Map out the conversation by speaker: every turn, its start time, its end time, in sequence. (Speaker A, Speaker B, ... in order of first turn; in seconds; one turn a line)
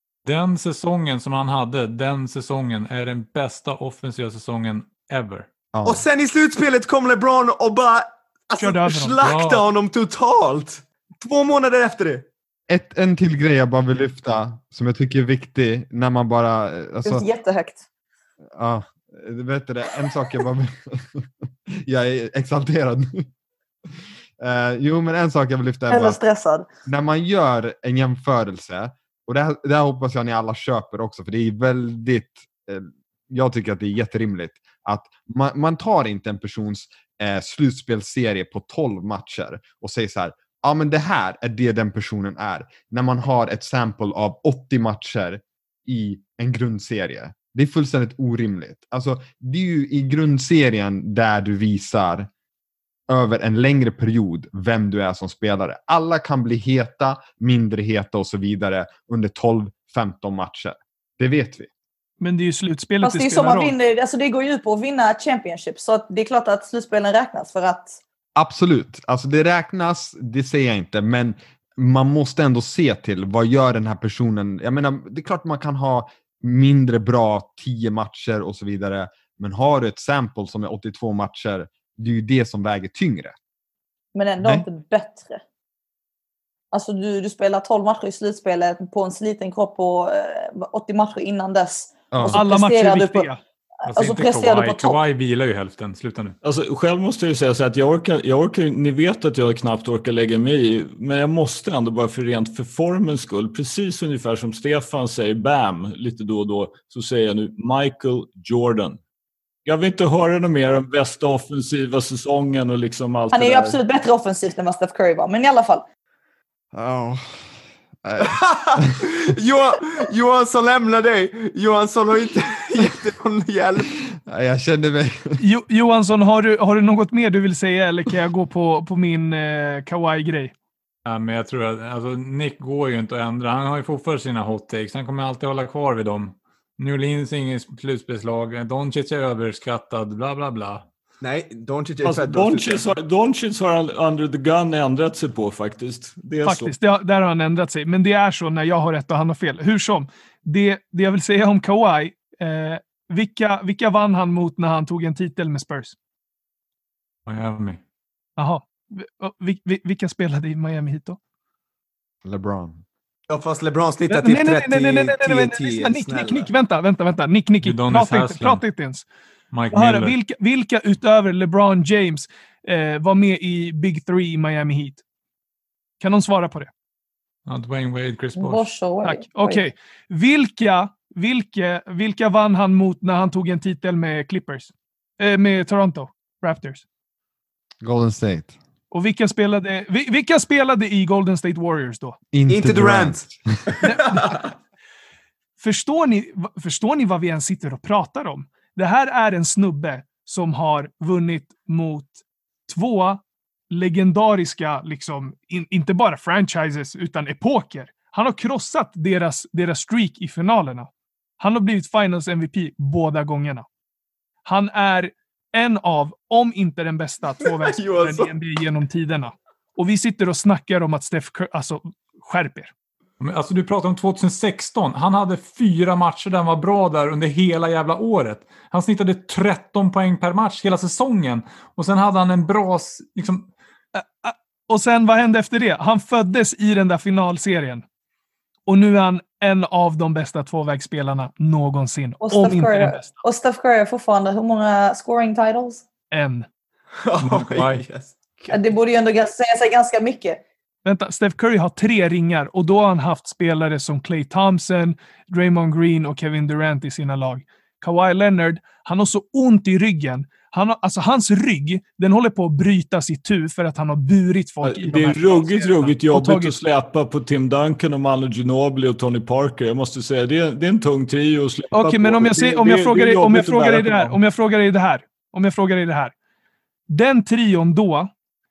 Speaker A: 0.2-5.5
Speaker B: 5.7-6.0
Speaker C: 5.8-12.2
Speaker D: 8.6-9.1
Speaker A: 9.2-9.6
Speaker B: 12.7-17.2
Speaker E: 17.0-17.8
Speaker B: 18.6-23.3
Speaker B: 24.4-26.2
Speaker E: 25.9-26.7
Speaker B: 26.9-52.3
Speaker B: 53.1-61.7
Speaker D: 62.2-63.7
Speaker E: 63.0-68.0
Speaker B: 68.3-83.3
Speaker E: 84.1-85.4
Speaker E: 86.7-93.3
Speaker B: 92.1-92.4
Speaker D: 92.3-93.4
Speaker E: 93.8-95.0
Speaker A: 93.9-96.3
Speaker F: 96.4-109.0
Speaker F: 109.7-113.8
Speaker E: 113.3-115.8
Speaker B: 116.7-119.0
Speaker C: 118.2-123.9
Speaker B: 124.0-125.4
Speaker D: 125.4-130.5
Speaker A: 131.1-140.8
Speaker C: 141.2-142.8
Speaker F: 142.0-146.7
Speaker D: 146.4-155.9
Speaker A: 157.2-157.8
Speaker D: 158.4-161.2
Speaker B: 162.2-162.8
Speaker C: 163.3-166.5
Speaker D: 164.1-169.0
Speaker A: 167.6-168.6
Speaker A: 169.5-170.2
Speaker D: 169.7-175.0
Speaker D: 176.0-176.7
Speaker A: 177.4-178.7
Speaker E: 178.3-179.6
Speaker D: 179.0-186.8
Speaker B: 187.8-188.5
Speaker D: 188.9-192.2
Speaker B: 192.3-193.7
Speaker C: 192.5-194.3
Speaker D: 193.8-194.4
Speaker D: 195.6-213.7
Speaker D: 214.4-222.7
Speaker C: 217.4-218.3
Speaker A: 223.2-233.5
Speaker D: 233.9-237.8
Speaker D: 238.7-243.1
Speaker E: 242.2-245.8
Speaker D: 246.1-246.5
Speaker C: 247.0-248.6
Speaker A: 247.2-247.8
Speaker E: 248.5-250.4
Speaker D: 250.8-266.5
Speaker F: 264.6-274.2
Speaker D: 271.7-276.1
Speaker D: 276.9-278.1